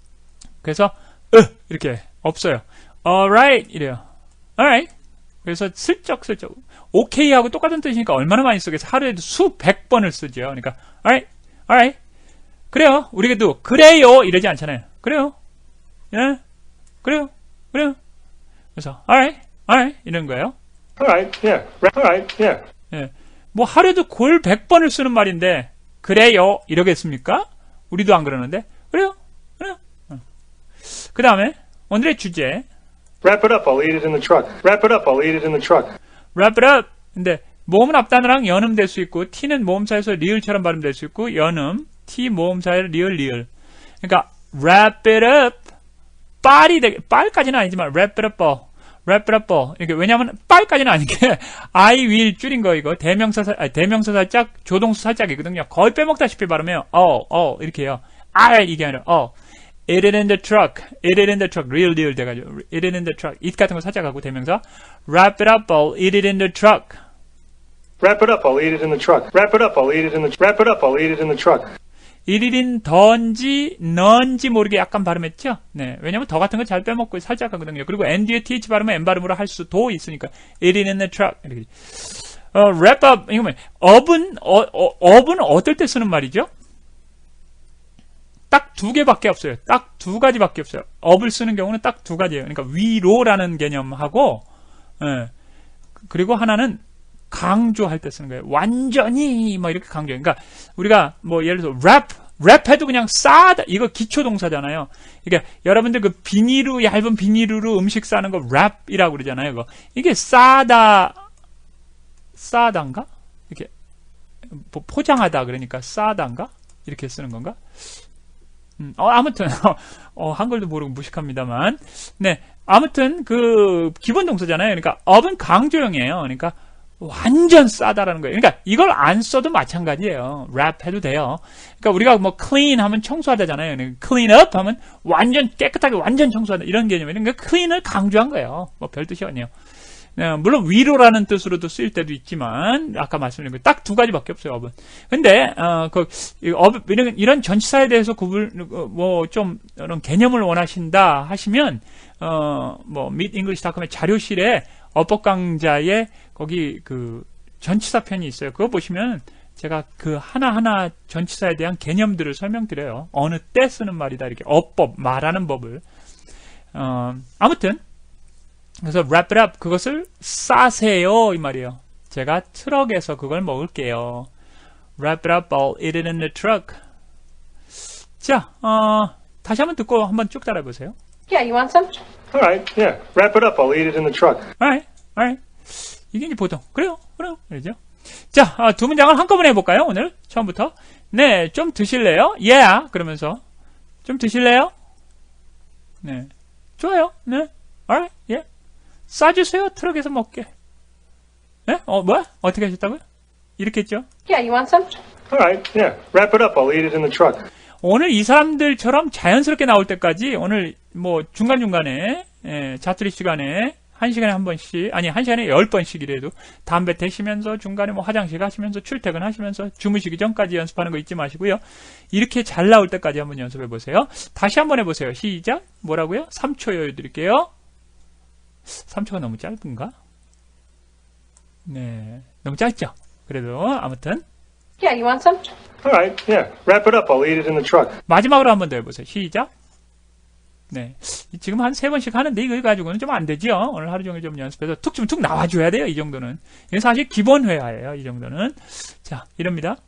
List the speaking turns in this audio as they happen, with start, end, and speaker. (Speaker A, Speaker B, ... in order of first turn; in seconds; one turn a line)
Speaker A: 0.6-4.0
Speaker A: 4.6-4.9
Speaker A: 5.4-12.0
Speaker A: 12.7-15.4
Speaker A: 16.1-16.4
Speaker A: 17.0-18.0
Speaker A: 18.8-20.6
Speaker B: 21.0-22.6
Speaker A: 22.9-30.2
Speaker A: 30.8-32.7
Speaker B: 33.2-36.0
Speaker A: 36.4-43.5
Speaker A: 44.0-45.7
Speaker A: 46.4-59.4
Speaker A: 59.9-67.0
Speaker B: 68.0-71.7
Speaker A: 72.3-86.5
Speaker A: 88.5-94.5
Speaker A: 95.0-95.3
Speaker A: 96.0-111.2
Speaker A: 112.4-113.7
Speaker A: 114.5-117.8
Speaker A: 118.8-139.5
Speaker A: 140.2-165.8
Speaker A: 166.7-167.8
Speaker A: 168.8-174.3
Speaker A: 175.0-176.8
Speaker A: 178.2-181.0
Speaker C: 181.3-182.0
Speaker B: 182.3-184.5
Speaker A: 184.6-193.4
Speaker A: 194.0-194.7
Speaker A: 196.0-198.4
Speaker A: 199.1-200.5
Speaker A: 201.7-203.0
Speaker A: 203.6-204.1
Speaker C: 204.3-205.0
Speaker B: 205.3-207.5
Speaker A: 207.8-227.5
Speaker A: 228.7-229.9
Speaker A: 231.7-234.2
Speaker C: 234.8-235.6
Speaker B: 235.8-238.0
Speaker A: 238.1-239.5
Speaker A: 240.7-249.8